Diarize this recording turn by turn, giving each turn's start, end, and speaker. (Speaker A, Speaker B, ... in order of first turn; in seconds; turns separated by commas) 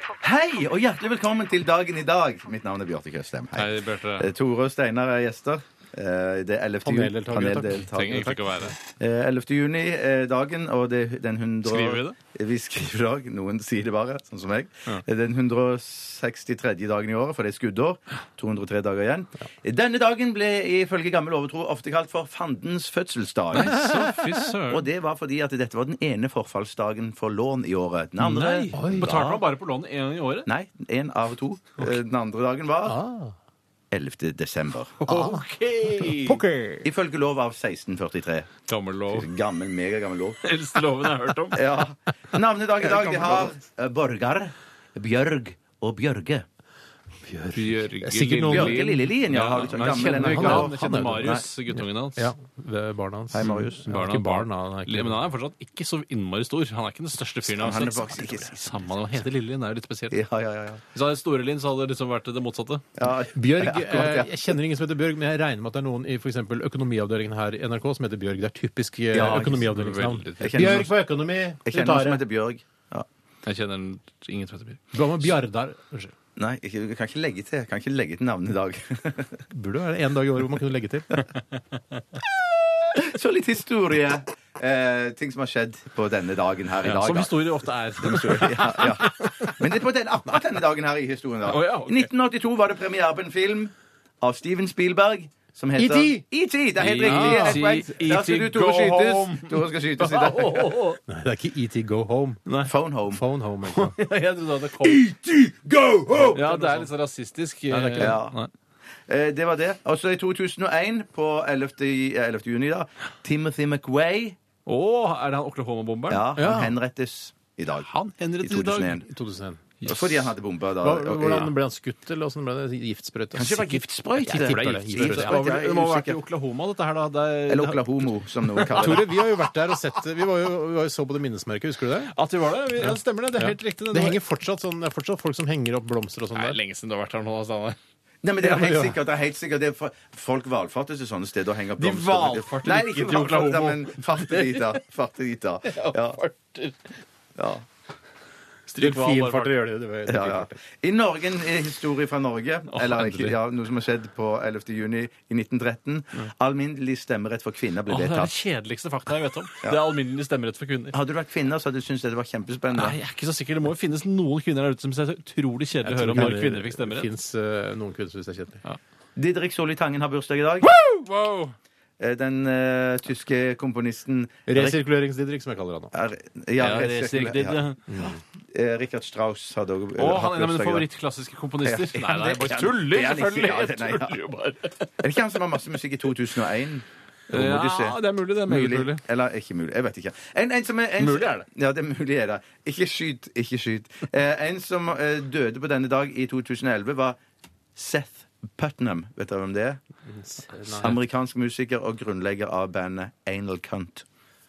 Speaker A: 0.2-23.9, Speaker B: 3.5-4.3, Speaker C: 6.8-7.9, Speaker B: 7.3-8.8, Speaker B: 11.7-12.2, Speaker B: 23.5-24.9, Speaker C: 23.6-24.5, Speaker A: 24.7-29.4, Speaker B: 28.2-30.5, Speaker C: 28.7-29.1, Speaker A: 30.5-33.0, Speaker C: 32.9-33.4, Speaker A: 33.9-35.0, Speaker B: 35.0-36.4, Speaker C: 35.1-36.9, Speaker A: 36.8-38.5, Speaker B: 38.7-39.3, Speaker A: 39.1-40.4, Speaker B: 40.4-41.8, Speaker A: 41.5-46.5, Speaker B: 43.1-43.4, Speaker C: 47.3-48.9, Speaker B: 47.5-52.3, Speaker A: 48.5-51.5, Speaker C: 50.0-55.2, Speaker A: 53.3-53.9, Speaker B: 53.4-60.2, Speaker A: 57.5-58.9, Speaker A: 60.1-60.8, Speaker B: 60.9-62.9, Speaker A: 63.0-64.5, Speaker C: 63.3-72.2, Speaker A: 69.1-69.7, Speaker B: 69.2-70.8, Speaker A: 70.4-70.9, Speaker A: 71.7-73.1, Speaker B: 73.4-75.0, Speaker C: 74.9-76.1, Speaker A: 76.4-79.4, Speaker C: 79.5-81.2, Speaker A: 82.3-100.9, Speaker B: 86.8-89.5, Speaker C: 88.3-89.1, Speaker B: 91.5-92.1, Speaker C: 95.8-96.2, Speaker B: 96.8-101.0, Speaker C: 97.0-97.6, Speaker C: 101.1-102.4, Speaker B: 102.5-102.7, Speaker A: 102.6-103.2, Speaker C: 103.1-104.0, Speaker B: 103.7-105.0, Speaker C: 104.8-106.9, Speaker B: 106.3-108.5, Speaker C: 107.7-108.2, Speaker A: 107.9-108.4, Speaker A: 109.1-114.4, Speaker B: 114.7-116.3, Speaker A: 116.1-117.9, Speaker C: 116.4-116.8, Speaker B: 117.8-119.0, Speaker A: 118.4-119.0, Speaker C: 119.0-119.6, Speaker B: 119.8-120.2, Speaker A: 119.8-121.5, Speaker C: 120.8-125.4, Speaker A: 123.3-126.2, Speaker B: 124.3-127.9, Speaker A: 127.5-129.1, Speaker B: 128.5-129.1, Speaker C: 128.7-132.1, Speaker B: 132.1-134.2, Speaker C: 132.8-136.6, Speaker B: 136.3-137.8, Speaker A: 138.2-146.2, Speaker C: 138.5-138.8, Speaker B: 141.8-144.7, Speaker B: 145.7-146.8, Speaker A: 147.4-147.7, Speaker B: 148.7-149.6, Speaker C: 148.8-150.6, Speaker A: 150.1-158.3, Speaker B: 152.7-153.4, Speaker B: 157.9-161.0, Speaker A: 160.9-163.0, Speaker B: 162.7-167.1, Speaker C: 165.9-168.6, Speaker A: 165.9-166.4, Speaker A: 169.2-170.7, Speaker B: 170.6-171.5, Speaker A: 172.0-174.8, Speaker C: 174.5-175.9, Speaker A: 175.9-177.6, Speaker B: 176.6-177.8, Speaker C: 177.9-178.2, Speaker A: 178.5-180.9, Speaker B: 180.0-184.9, Speaker A: 181.6-184.2, Speaker A: 185.0-197.2, Speaker B: 187.3-189.0, Speaker B: 191.0-191.4, Speaker A: 197.8-199.8, Speaker C: 200.1-200.9, Speaker A: 200.7-204.1